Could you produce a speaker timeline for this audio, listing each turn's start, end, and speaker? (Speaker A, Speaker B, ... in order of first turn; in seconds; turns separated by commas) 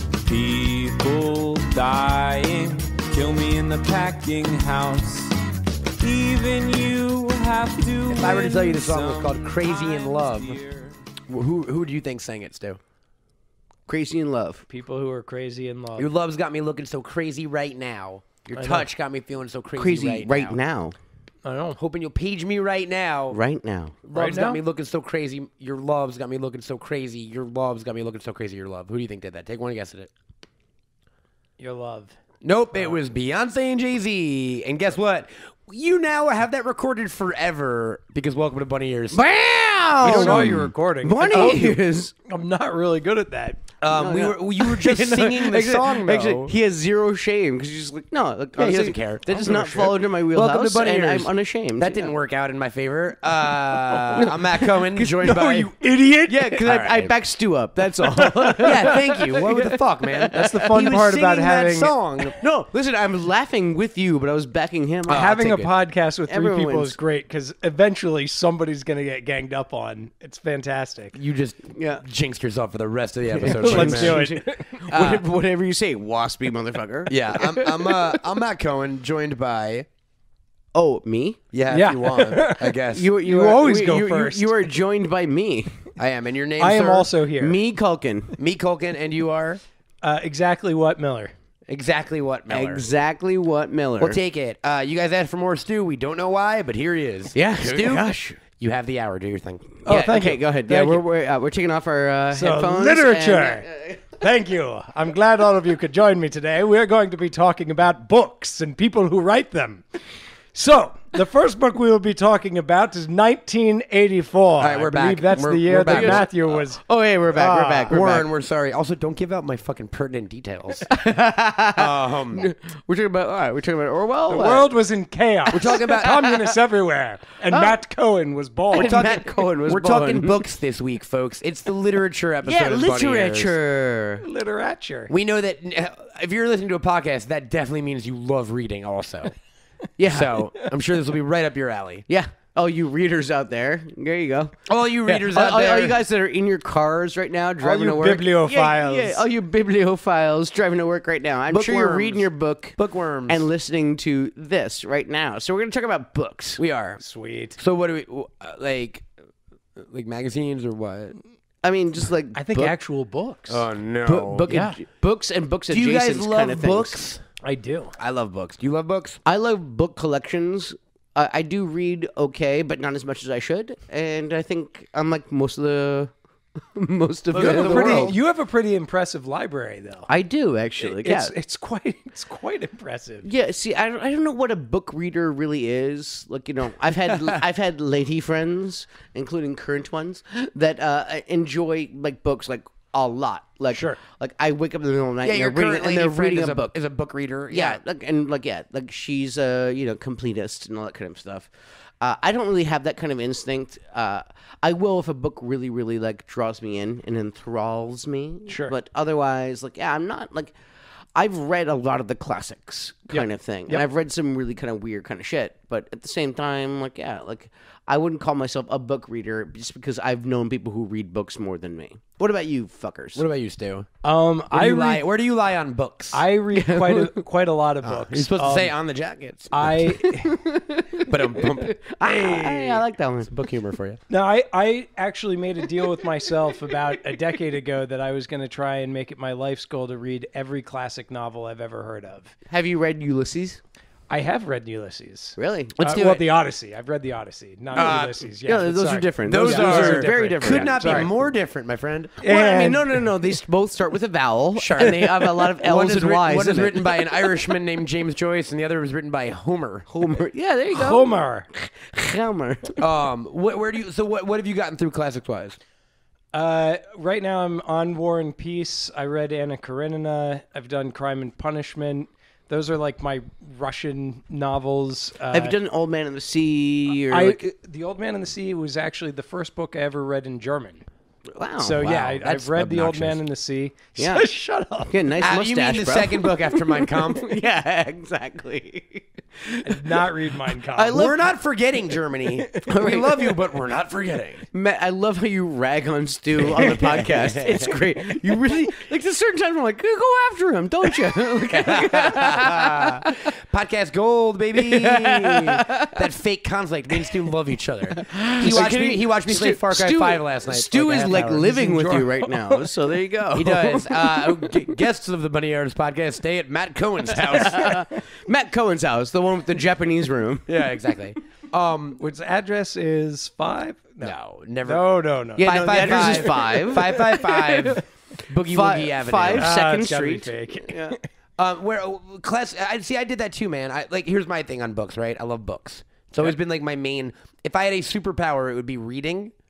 Speaker A: 0.2-5.3, Speaker A: 6.0-11.0, Speaker B: 8.1-10.6, Speaker B: 11.3-12.8, Speaker C: 13.9-14.7, Speaker D: 14.7-16.1, Speaker B: 16.0-20.6, Speaker D: 18.6-18.9, Speaker C: 19.7-21.0, Speaker D: 21.4-21.8, Speaker B: 21.8-23.4, Speaker C: 23.3-24.0, Speaker B: 24.1-30.1, Speaker D: 24.1-24.6, Speaker D: 31.6-32.2, Speaker B: 32.4-39.2, Speaker C: 39.1-42.1, Speaker B: 40.0-40.7, Speaker D: 40.0-43.6, Speaker B: 41.3-41.6, Speaker B: 43.8-46.5, Speaker C: 43.8-52.1, Speaker B: 48.6-55.7, Speaker D: 53.9-54.3, Speaker C: 54.2-55.7, Speaker D: 55.2-56.6, Speaker C: 56.3-59.1, Speaker B: 56.6-57.1, Speaker D: 58.1-59.7, Speaker B: 58.6-62.4, Speaker D: 60.3-61.9, Speaker C: 62.4-65.6, Speaker B: 65.1-65.7, Speaker D: 65.1-71.2, Speaker C: 66.3-67.0, Speaker B: 71.2-74.3, Speaker C: 71.8-72.0, Speaker C: 73.3-78.1, Speaker D: 73.5-74.8, Speaker B: 74.9-75.2, Speaker B: 77.1-79.9, Speaker C: 80.7-81.4, Speaker B: 81.5-83.1, Speaker D: 81.7-84.7, Speaker C: 82.9-85.9, Speaker B: 86.0-87.1, Speaker D: 86.6-87.6, Speaker C: 87.4-88.3, Speaker B: 88.4-89.6, Speaker D: 90.0-91.3, Speaker B: 91.7-92.8, Speaker C: 92.5-94.2, Speaker B: 94.0-99.8, Speaker C: 97.3-98.4, Speaker C: 99.8-104.1, Speaker D: 99.9-101.0, Speaker D: 102.3-103.7, Speaker D: 104.2-110.0, Speaker D: 110.5-116.8, Speaker B: 114.6-116.3, Speaker C: 115.9-118.2, Speaker D: 117.3-117.9, Speaker B: 117.9-121.0, Speaker C: 120.9-124.7, Speaker B: 121.7-122.5, Speaker D: 124.3-129.0, Speaker C: 125.5-125.8, Speaker B: 125.5-126.5, Speaker C: 127.5-127.8, Speaker C: 128.7-130.5, Speaker B: 128.7-133.6, Speaker C: 132.4-134.2, Speaker D: 134.2-135.1, Speaker B: 135.1-139.3, Speaker C: 140.0-140.5, Speaker B: 140.1-142.1, Speaker C: 142.1-152.8, Speaker B: 144.7-146.0, Speaker D: 147.6-149.2, Speaker B: 151.5-153.4, Speaker C: 153.3-156.6, Speaker B: 156.6-157.0, Speaker D: 157.0-157.6, Speaker B: 157.6-159.1, Speaker B: 159.8-161.2, Speaker C: 161.6-162.8, Speaker D: 162.3-163.7, Speaker B: 163.5-164.5, Speaker C: 164.1-167.0, Speaker D: 164.5-164.8, Speaker B: 165.7-167.2, Speaker D: 167.4-167.9, Speaker B: 168.0-169.2, Speaker C: 169.2-178.2, Speaker B: 177.3-178.2, Speaker D: 177.4-180.1, Speaker C: 180.1-181.3, Speaker D: 180.8-183.3, Speaker C: 183.2-196.8, Speaker D: 193.7-194.0, Speaker B: 195.2-197.8, Speaker C: 197.5-210.6, Speaker D: 208.5-208.7, Speaker C: 211.2-223.2, Speaker D: 213.1-213.8, Speaker B: 223.2-223.9, Speaker D: 224.0-225.0, Speaker B: 224.5-226.2, Speaker D: 226.1-228.7, Speaker C: 226.5-227.2, Speaker B: 227.8-229.7, Speaker D: 229.5-230.4, Speaker C: 230.0-233.3, Speaker B: 231.1-234.0, Speaker D: 234.1-242.4, Speaker C: 242.5-243.6, Speaker D: 244.1-251.1, Speaker C: 245.4-246.2, Speaker B: 247.8-248.2, Speaker C: 247.8-251.2, Speaker B: 249.3-252.3, Speaker D: 252.2-253.0, Speaker C: 252.2-257.5, Speaker B: 254.6-259.9, Speaker C: 259.9-262.8, Speaker D: 260.7-261.5, Speaker B: 262.8-265.6, Speaker D: 266.3-275.6, Speaker C: 275.3-277.4, Speaker D: 277.1-280.9, Speaker C: 281.3-281.9, Speaker D: 281.6-284.9, Speaker B: 281.8-283.2, Speaker C: 284.0-284.3, Speaker C: 284.9-290.1, Speaker B: 285.2-287.4, Speaker D: 289.6-291.0, Speaker C: 290.7-291.2, Speaker B: 290.9-294.5, Speaker C: 292.7-293.3, Speaker C: 294.5-303.1, Speaker B: 296.6-297.6, Speaker D: 296.6-297.1, Speaker B: 301.5-311.3, Speaker C: 304.6-306.1, Speaker C: 306.9-307.2, Speaker C: 307.9-314.4, Speaker D: 310.8-312.7, Speaker B: 313.4-317.8, Speaker C: 317.1-320.5, Speaker B: 320.5-322.0, Speaker D: 322.0-327.8, Speaker B: 324.0-329.5, Speaker C: 325.4-327.1, Speaker C: 328.5-331.0, Speaker D: 329.4-331.1, Speaker B: 331.4-339.3